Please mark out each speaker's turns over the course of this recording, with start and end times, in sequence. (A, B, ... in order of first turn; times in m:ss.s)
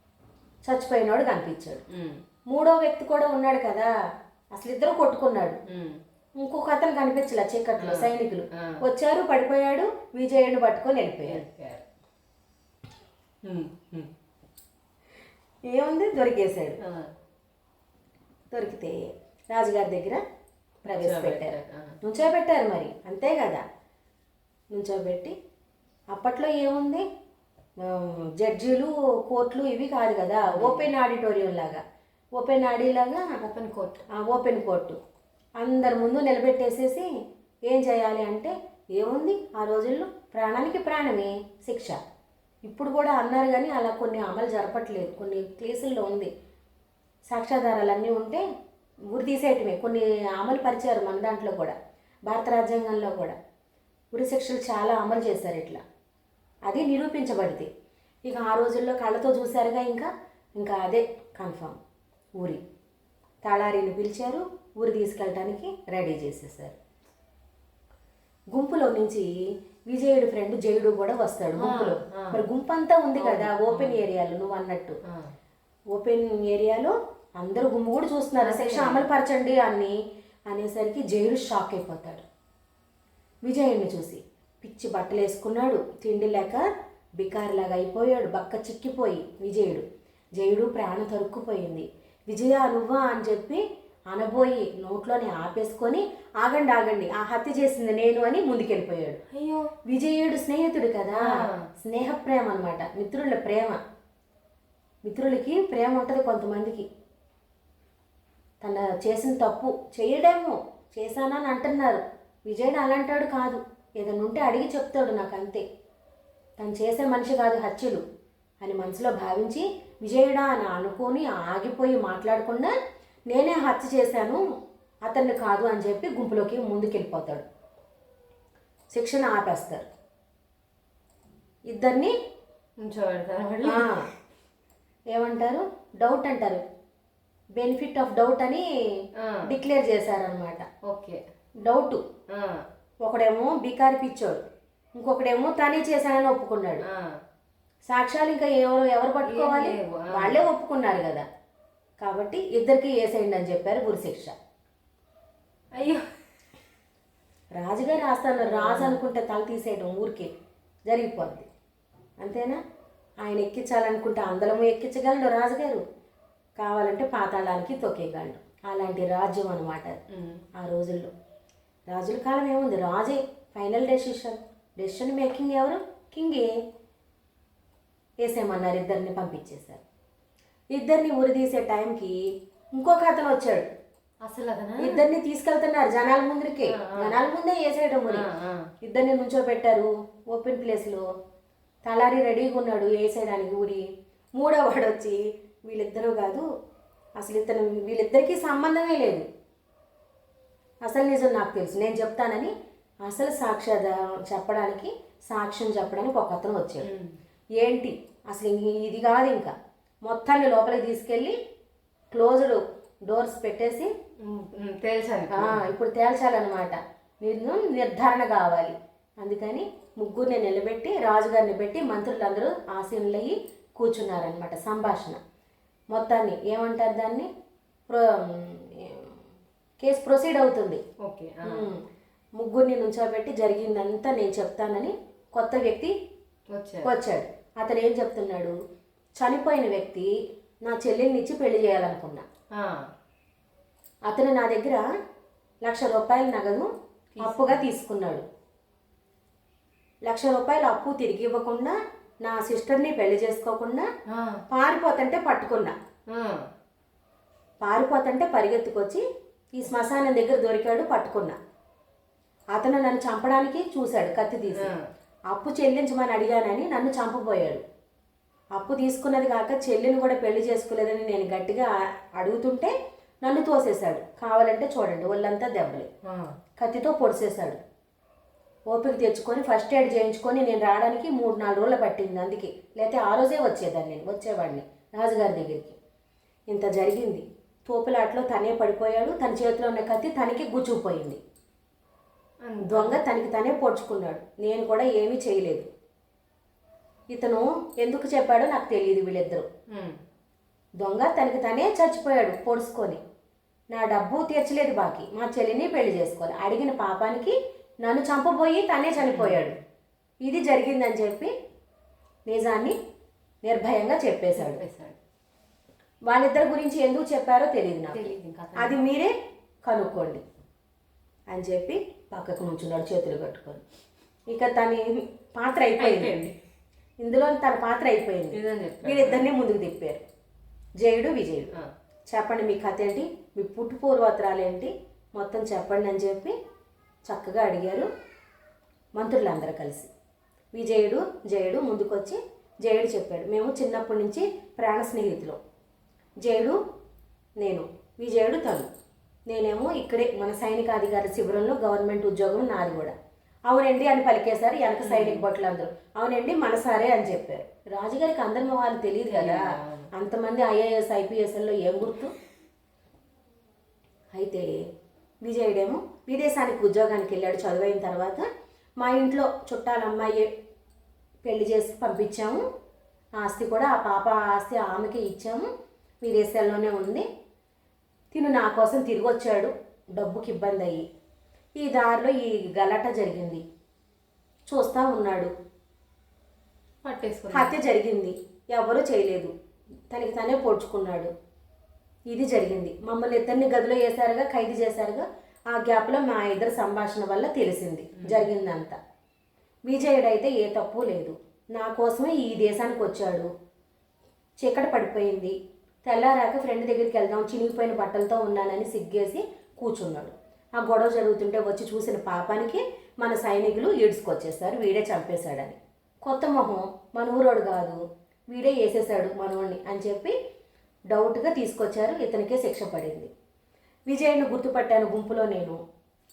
0:00.6-0:01.8 A
0:01.9-0:02.2 B
0:02.5-0:03.9 A
0:04.5-0:05.6 A
0:05.7-0:06.0 B
0:06.4-0:11.4 A
0:07.8-0:08.8 B
0:11.2-0:11.8 B
0:13.4-0:14.1 B
0:15.6-0:16.8 A
0:16.8-0:17.1 B
0:18.5-0:19.0 A
0:19.5-0:20.2 A
0:20.8-0:23.6 A
0:20.9-0:21.9 B
0:24.7-0:25.3 A
0:26.1-0:27.0 A
0:27.8-0:31.8 A
0:30.5-0:30.9 B
0:32.4-0:33.2 A
0:33.4-0:34.0 B
0:34.1-0:35.0 A
0:35.6-0:37.1 A
0:37.7-0:42.0 A
0:42.6-0:46.3 A
0:47.2-0:48.4 A
0:49.1-0:51.7 A
0:52.2-0:53.3 A
0:54.1-0:55.8 A
0:56.7-0:57.7 A
0:58.2-1:01.8 A
1:03.4-1:06.8 A
1:08.5-1:09.3 A
1:09.9-1:15.0 A
1:11.6-1:12.4 B
1:13.2-1:14.0 B
1:15.9-1:19.9 A
1:18.4-1:19.0 B
1:20.5-1:22.2 A
1:23.4-1:26.6 A
1:27.2-1:29.8 A
1:30.4-1:39.2 A
1:39.3-1:39.7 B
1:39.9-1:43.8 A
1:41.2-1:41.6 B
1:45.0-1:46.8 A
1:48.6-1:55.6 A
1:56.6-1:58.0 A
1:58.6-2:02.7 A
2:03.3-2:04.4 A
2:05.0-2:07.4 A
2:08.9-2:09.9 A
2:11.7-2:12.1 A
2:12.8-2:14.0 B
2:13.6-2:14.1 A
2:15.1-2:16.6 A
2:17.6-2:18.6 A
2:19.4-2:20.6 A
2:20.8-2:21.2 B
2:21.6-2:22.0 A
2:23.0-2:24.4 A
2:25.0-2:26.8 A
2:27.9-2:31.2 A
2:29.2-2:30.4 B
2:32.0-2:34.3 A
2:35.7-2:36.0 B
2:37.6-2:40.3 A
2:38.4-2:39.0 B
2:40.8-2:41.5 A
2:42.2-2:42.6 A
2:43.2-2:45.8 A
2:46.6-2:50.0 A
2:50.1-2:50.4 B
2:50.6-2:51.1 A
2:51.9-2:56.5 A
2:58.2-2:59.8 A
3:00.7-3:02.2 A
3:02.7-3:03.7 A
3:04.2-3:05.0 B
3:04.8-3:08.2 A
3:06.8-3:07.2 B
3:08.1-3:08.7 B
3:08.8-3:11.0 A
3:11.8-3:16.4 A
3:17.2-3:19.2 A
3:20.8-3:22.5 A
3:23.0-3:26.9 A
3:26.8-3:27.2 B
3:27.6-3:31.4 A
3:32.1-3:33.9 A
3:34.2-3:35.6 B
3:35.3-3:45.2 A
3:45.9-3:47.3 A
3:47.9-3:49.2 A
3:49.8-3:50.8 A
3:51.0-3:51.7 B
3:51.4-3:51.8 A
3:52.4-3:55.9 A
3:56.5-3:56.9 B
3:56.8-3:58.5 A
3:59.2-4:00.1 A
4:00.6-4:02.2 A
4:04.0-4:04.8 A
4:05.6-4:06.7 A
4:07.2-4:07.6 B
4:07.2-4:08.2 A
4:10.0-4:13.8 A
4:14.1-4:14.4 B
4:14.5-4:15.7 A
4:16.1-4:16.4 B
4:17.6-4:19.0 A
4:19.5-4:21.4 A
4:22.5-4:24.7 A
4:24.5-4:24.8 B
4:25.3-4:27.6 A
4:28.5-4:32.7 A
4:33.2-4:35.9 A
4:36.1-4:36.3 B
4:36.6-4:37.6 A
4:38.7-4:45.8 A
4:46.5-4:51.2 A
4:52.4-4:53.0 B
4:52.6-4:55.6 A
4:57.1-4:59.4 A
5:00.8-5:03.0 A
5:03.7-5:09.6 A
5:09.0-5:09.5 B
5:10.2-5:11.3 A
5:12.3-5:12.7 A
5:13.4-5:14.6 A
5:14.4-5:15.0 B
5:16.0-5:19.1 A
5:17.9-5:18.8 B
5:19.6-5:20.2 A
5:21.3-5:23.6 A
5:24.3-5:26.1 A
5:25.8-5:26.3 B
5:27.0-5:30.0 A
5:28.3-5:29.3 B
5:30.8-5:31.5 A
5:32.1-5:36.3 A
5:37.1-5:37.9 A
5:39.0-5:39.9 A
5:40.5-5:45.4 A
5:46.2-5:46.6 A
5:47.4-5:48.7 A
5:49.3-5:52.9 A
5:53.5-5:59.4 A
5:54.8-5:55.2 B
5:59.0-5:59.9 B
5:59.9-6:02.1 A
6:04.1-6:04.4 A
6:05.2-6:08.2 A
6:08.8-6:10.3 A
6:11.2-6:12.4 A
6:13.2-6:15.4 A
6:16.0-6:17.0 A
6:18.1-6:20.8 A
6:21.6-6:23.4 A
6:24.5-6:25.3 A
6:26.8-6:27.5 B
6:27.3-6:29.3 A
6:29.9-6:31.1 A
6:32.1-6:38.8 A
6:38.0-6:38.3 B
6:39.6-6:43.3 A
6:44.4-6:45.3 A
6:45.8-6:57.8 A
6:58.3-7:00.1 A
7:00.9-7:03.1 A
7:03.9-7:05.6 A